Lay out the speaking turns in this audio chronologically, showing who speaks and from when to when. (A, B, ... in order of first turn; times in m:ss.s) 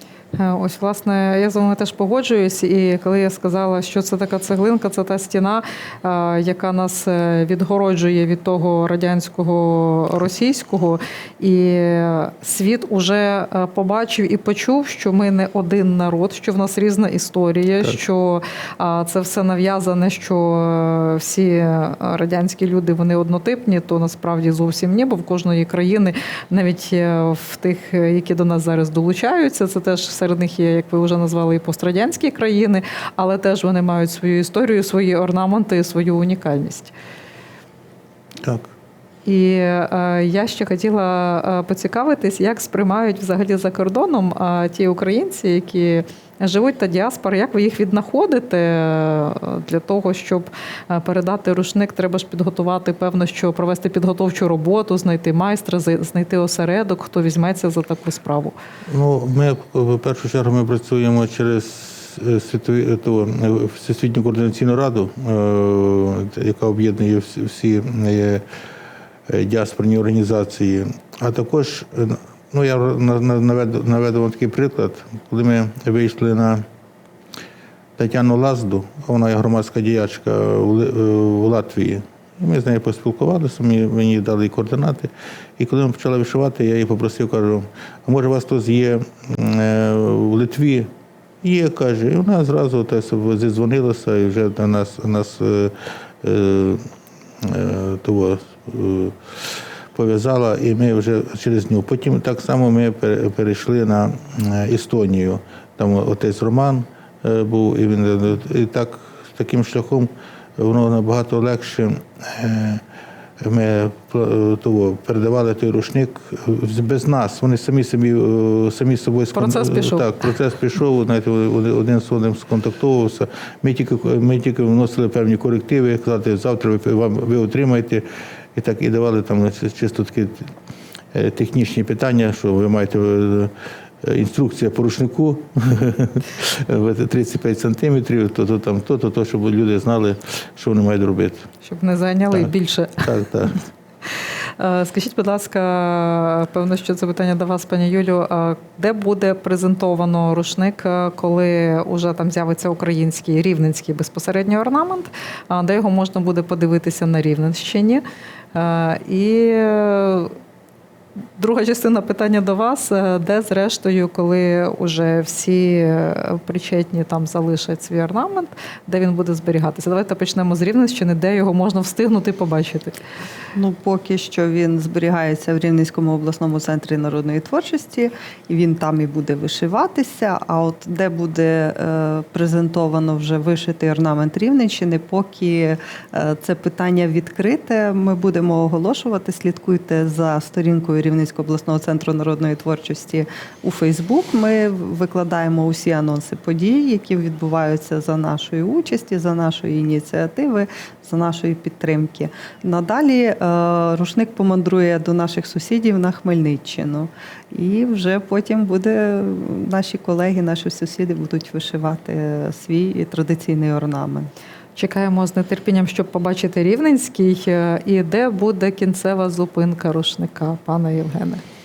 0:00.3-0:36.9 A
0:38.4-0:38.7 B
0:39.2-0:58.5 A
0:58.9-1:08.4 B
1:09.3-1:16.6 B
1:18.0-1:30.9 B
1:31.4-1:36.8 B
1:37.4-1:52.8 B
1:53.4-2:08.0 B
1:59.3-2:00.2 A
2:08.5-2:10.5 B
2:11.1-2:21.5 B
2:21.6-2:23.1 A
2:22.3-2:23.6 B
2:24.6-2:38.0 A
2:38.5-2:40.3 A
2:41.4-2:53.0 A
2:53.5-3:34.3 C
3:34.8-3:41.4 A